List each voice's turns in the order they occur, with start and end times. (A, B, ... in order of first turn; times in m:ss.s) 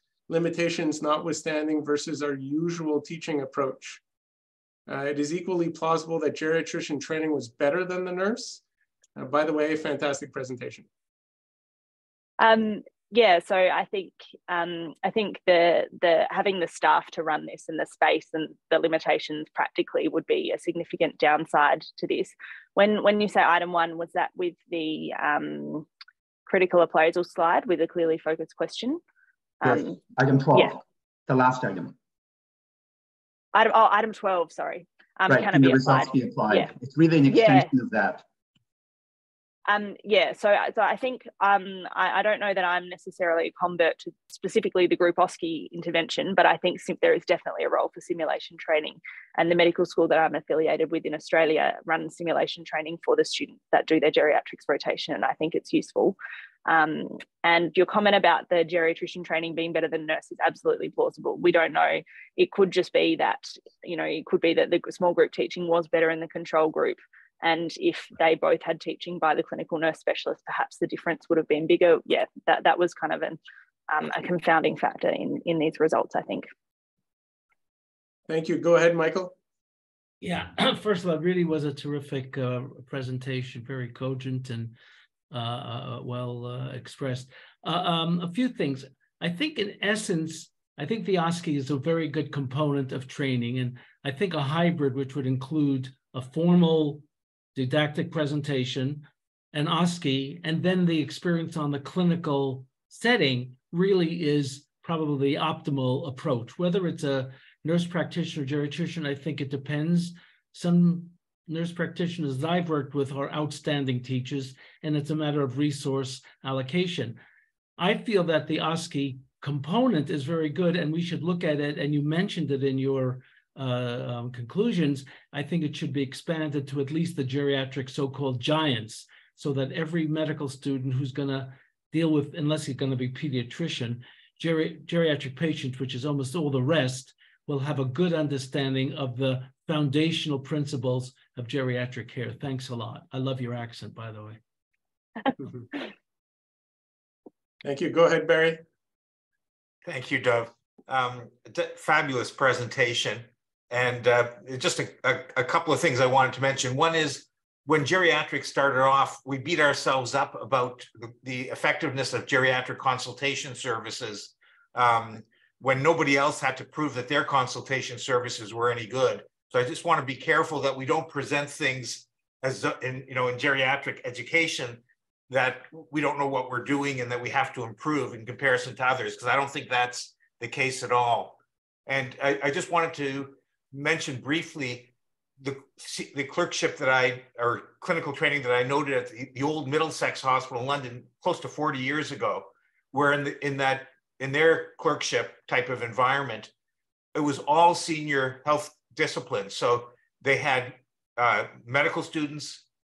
0:00.3-0:04.0 A
0:04.9-0:08.6 A
0:09.2-0:10.9 A
0:12.4-0:25.9 B
0:26.5-0:29.0 B
0:29.6-0:30.0 B
0:29.6-0:32.0 C
0:33.5-0:36.7 B
0:35.3-0:38.2 C
0:37.3-0:37.7 B
0:39.7-1:13.4 B
1:13.9-1:16.5 B
1:18.3-1:19.3 A
1:20.2-1:24.7 D
1:25.3-1:37.0 D
1:37.6-1:57.2 D
1:57.8-2:24.4 D
2:27.6-2:28.6 A
2:29.8-3:16.5 E
3:17.2-3:22.6 E